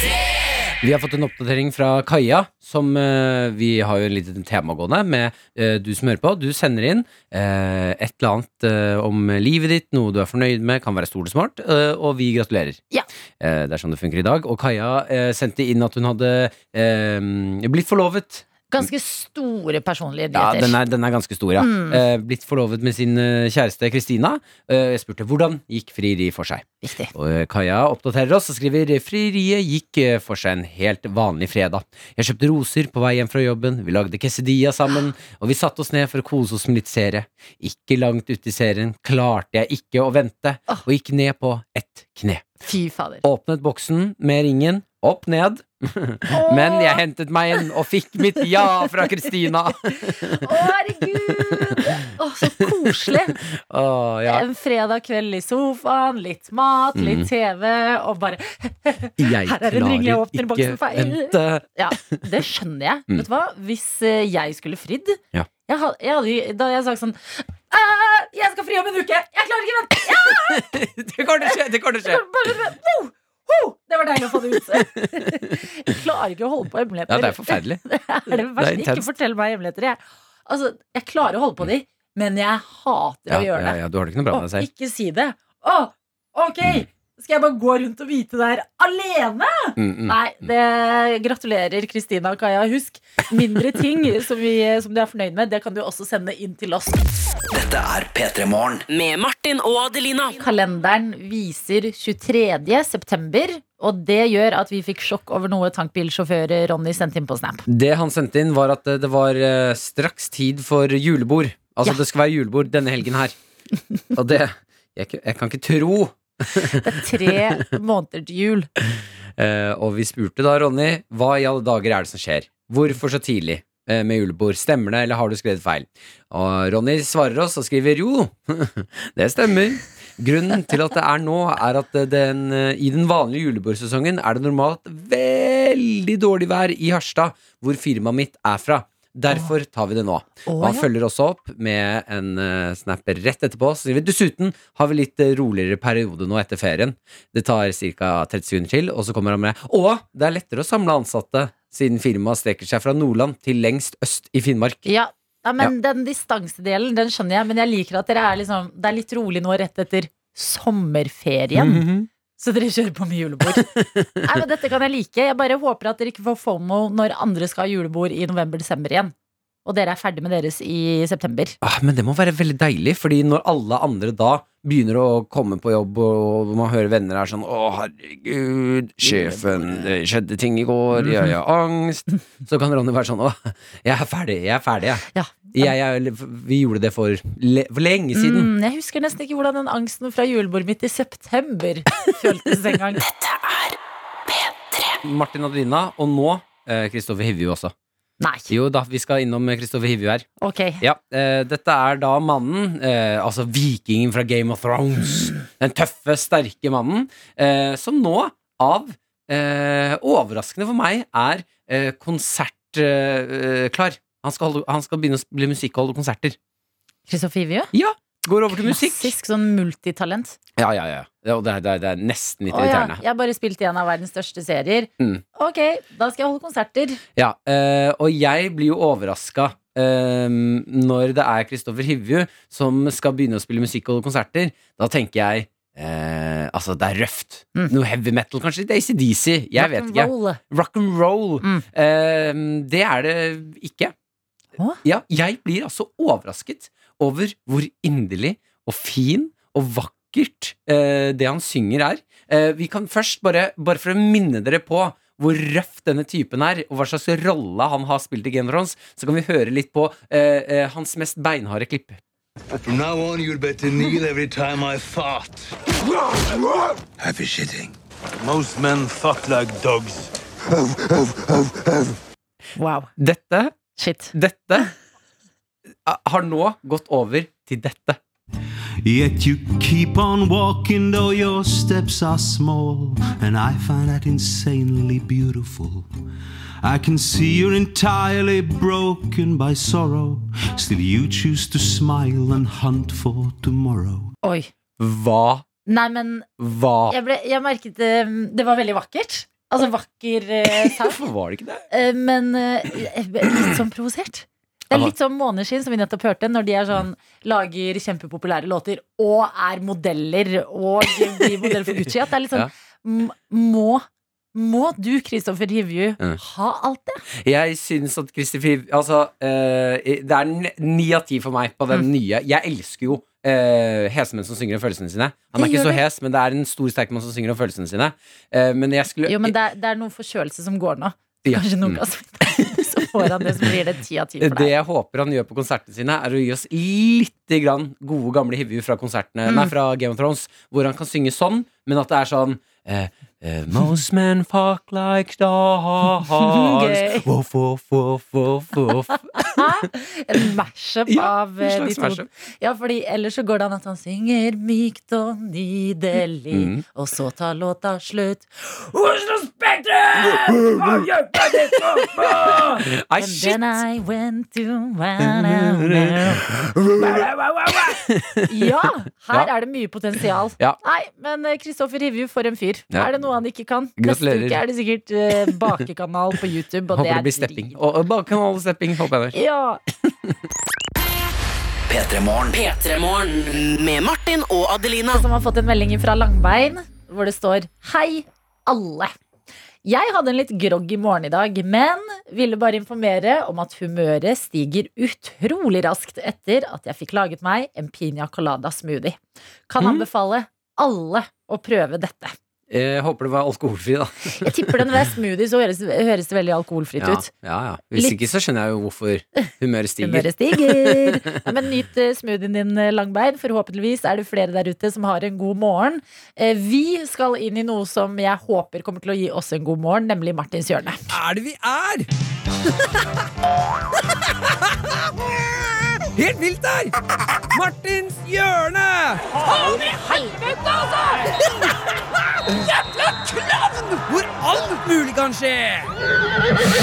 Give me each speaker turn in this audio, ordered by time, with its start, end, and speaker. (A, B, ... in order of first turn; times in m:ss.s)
0:00.8-0:12.8 A
0:13.4-0:18.5 A
0:18.7-0:20.8 B
0:20.3-0:42.5 A
0:21.6-0:22.0 B
0:26.8-0:27.1 B
0:42.6-0:43.2 B
0:43.2-0:52.0 A
0:46.3-0:47.0 B
0:49.9-0:53.4 B
0:52.6-0:54.4 A
0:54.3-1:10.8 B
0:57.0-0:57.3 A
0:59.2-1:02.2 A
1:10.3-1:12.2 A
1:11.5-1:23.8 B
1:14.7-1:15.6 A
1:17.1-1:19.1 A
1:23.3-1:24.7 A
1:24.3-1:37.0 B
1:29.8-1:30.2 A
1:37.5-1:38.8 C
1:38.9-1:40.4 D
1:40.4-1:47.6 B
1:47.7-1:53.4 A
1:54.1-1:57.6 A
1:56.7-1:58.7 B
1:59.4-2:34.9 A
2:20.5-2:20.9 B
2:34.9-2:41.9 B
2:41.6-2:42.1 A
2:42.4-2:43.7 B
2:43.5-2:44.2 A
2:44.2-2:49.1 B
2:49.6-2:51.6 B
2:51.6-3:08.5 A
2:59.0-2:59.8 B
3:01.0-3:01.3 B
3:05.1-3:05.7 B
3:08.2-3:13.0 B
3:15.0-3:17.7 A
3:18.2-3:18.5 B
3:18.5-3:20.3 A
3:20.4-3:20.8 B
3:20.8-3:36.4 A
3:37.1-3:37.7 B
3:37.7-3:39.1 A
3:38.5-3:40.4 B
3:40.6-3:43.0 A
3:42.5-3:47.0 B
3:47.2-4:03.9 A
3:59.6-4:00.4 B
4:04.8-4:22.0 A
4:22.6-4:31.9 E
4:32.6-4:32.9 B
4:33.0-4:33.6 A
4:33.8-4:34.7 B
4:34.1-4:34.7 A
4:35.9-4:38.0 A
4:38.8-4:45.9 E
4:46.6-4:54.1 E
4:54.2-4:54.5 B
4:54.8-4:55.5 A
4:55.7-4:56.3 B
4:56.4-4:57.0 A
4:56.9-5:01.0 B
5:00.6-5:01.6 A
5:01.7-5:17.0 B
5:17.2-5:29.4 A
5:25.4-5:25.8 B
5:29.1-5:34.5 B
5:31.2-5:33.5 A
5:34.2-5:49.6 A
5:39.3-5:39.5 B
5:46.1-5:47.1 B
5:49.2-6:06.2 B
5:50.9-5:52.1 A
5:56.3-5:56.6 A
5:59.9-6:03.6 A
6:05.0-6:08.3 A
6:08.3-6:17.6 B
6:13.8-6:14.4 A
6:16.7-6:19.2 A
6:19.1-6:19.6 B
6:21.7-6:22.4 C
6:22.3-6:25.0 D
6:24.9-6:28.9 B
6:29.6-6:42.2 B
6:39.6-6:39.8 A
6:42.5-6:44.7 A
6:44.2-6:47.1 B
6:46.8-6:51.2 A
6:49.8-7:00.9 B
7:00.9-7:01.9 A
7:02.5-7:02.8 A
7:04.2-7:04.9 A
7:05.6-7:06.8 A
7:07.3-7:11.6 A
7:12.2-7:15.7 A